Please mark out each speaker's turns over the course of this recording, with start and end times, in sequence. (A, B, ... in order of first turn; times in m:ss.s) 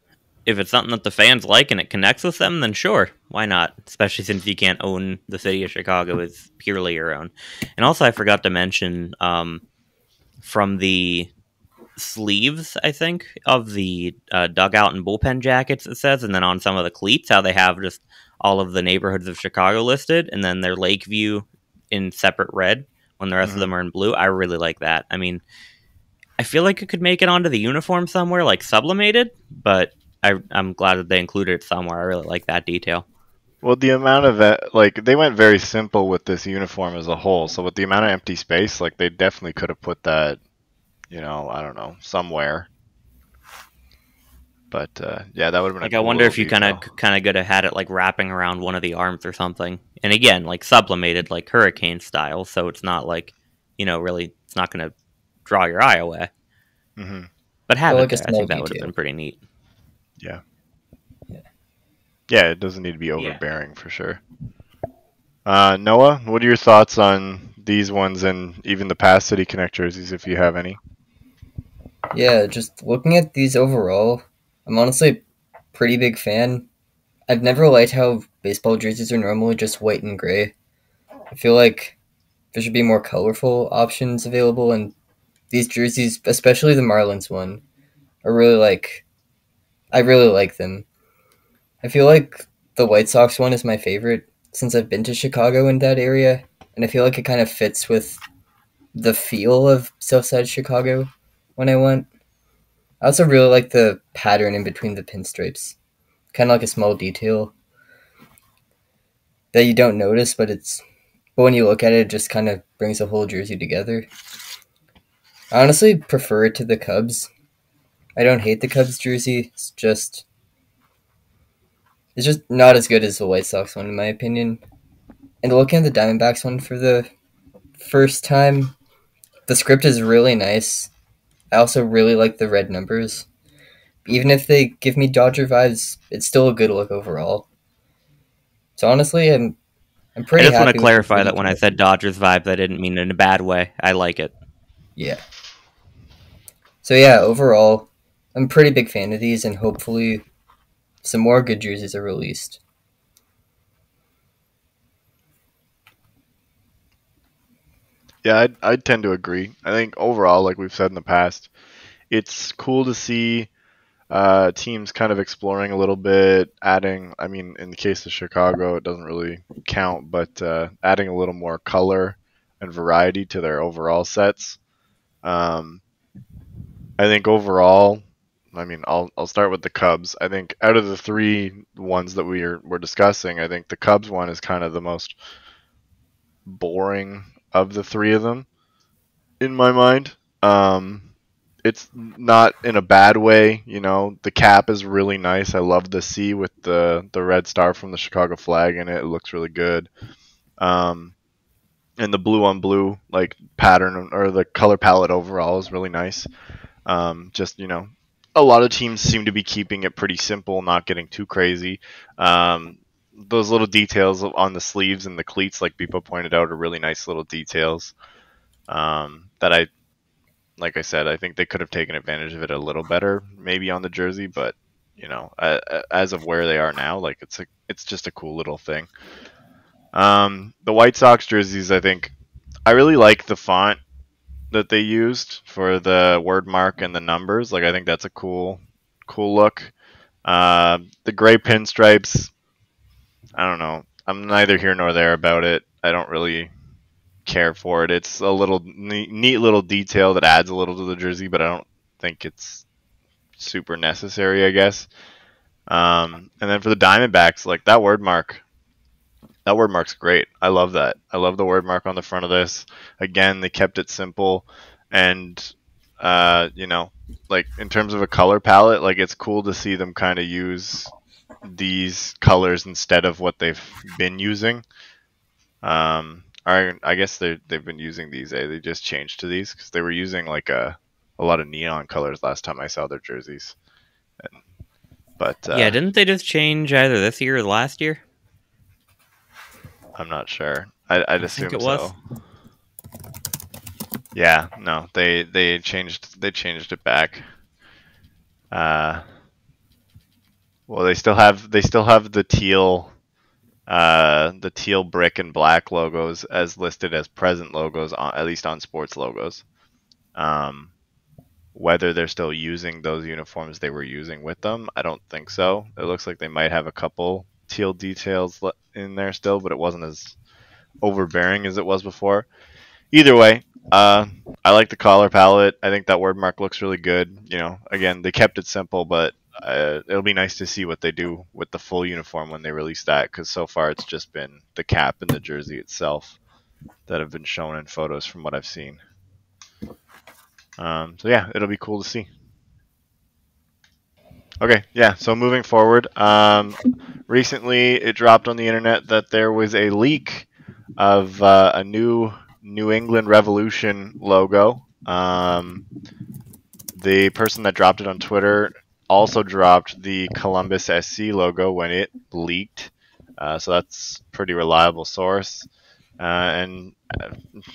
0:00.4-0:09.6 A
0:10.4-0:11.3 A
0:12.0-0:25.4 A
0:23.4-0:23.7 B
0:26.4-0:33.0 A
0:33.6-0:40.4 B
0:41.1-0:42.7 B
0:44.7-0:46.8 B
0:45.8-0:54.9 A
0:55.4-0:56.3 A
0:57.0-0:57.3 B
0:57.7-0:59.4 A
0:57.9-0:58.9 C
1:02.3-1:04.2 B
1:05.4-1:10.8 B
1:12.1-1:15.2 C
1:15.7-1:16.6 C
1:17.3-1:20.5 C
1:21.3-1:22.0 C
1:22.5-1:24.9 C
1:25.5-1:27.6 C
1:28.2-1:29.0 C
1:29.9-1:30.8 C
1:31.8-1:38.2 C
1:38.9-1:42.1 C
1:43.0-1:45.7 C
1:46.3-1:47.5 C
1:49.5-1:50.8 C
1:51.4-1:54.1 C
1:55.5-1:57.3 C
1:58.2-2:00.2 C
2:02.2-2:04.6 C
2:05.4-2:07.1 C
2:07.8-2:08.8 C
2:09.5-2:10.9 C
2:11.5-2:13.2 C
2:14.0-2:17.5 C
2:18.8-2:19.6 C
2:20.2-2:21.8 C
2:20.4-2:24.3 A
2:26.8-2:30.2 C
2:31.0-2:32.6 C
2:38.2-2:41.5 B
2:42.1-2:43.5 B
2:44.1-2:54.6 B
2:55.2-2:55.8 B
2:57.0-3:05.2 B
3:06.4-3:08.4 B
3:09.4-3:11.0 B
3:11.6-3:19.9 B
3:20.6-3:21.1 B
3:22.0-3:26.3 B
3:26.8-3:37.9 B
3:38.7-3:39.7 B
3:40.6-3:48.9 B
3:49.9-3:52.1 B
3:52.6-3:53.8 B
3:54.5-3:59.7 B
4:00.2-4:02.3 B
4:03.4-4:06.5 B
4:07.2-4:12.6 B
4:13.4-4:14.9 B
4:15.7-4:18.4 B
4:19.4-4:30.9 B
4:31.4-4:34.6 B
4:35.6-4:43.6 B
4:45.2-4:45.8 B
4:45.5-4:48.0 A
4:50.0-4:52.0 B
4:51.3-4:51.9 A
4:54.1-4:57.2 B
4:58.5-4:59.0 B
5:00.7-5:02.9 B
5:03.7-5:09.4 B
5:10.1-5:10.7 B
5:11.5-5:20.1 B
5:20.8-5:22.3 B
5:22.9-5:36.2 B
5:36.9-5:38.8 B
5:40.6-5:42.1 B
5:44.4-5:55.6 B
5:56.8-6:05.5 B
6:06.0-6:07.2 B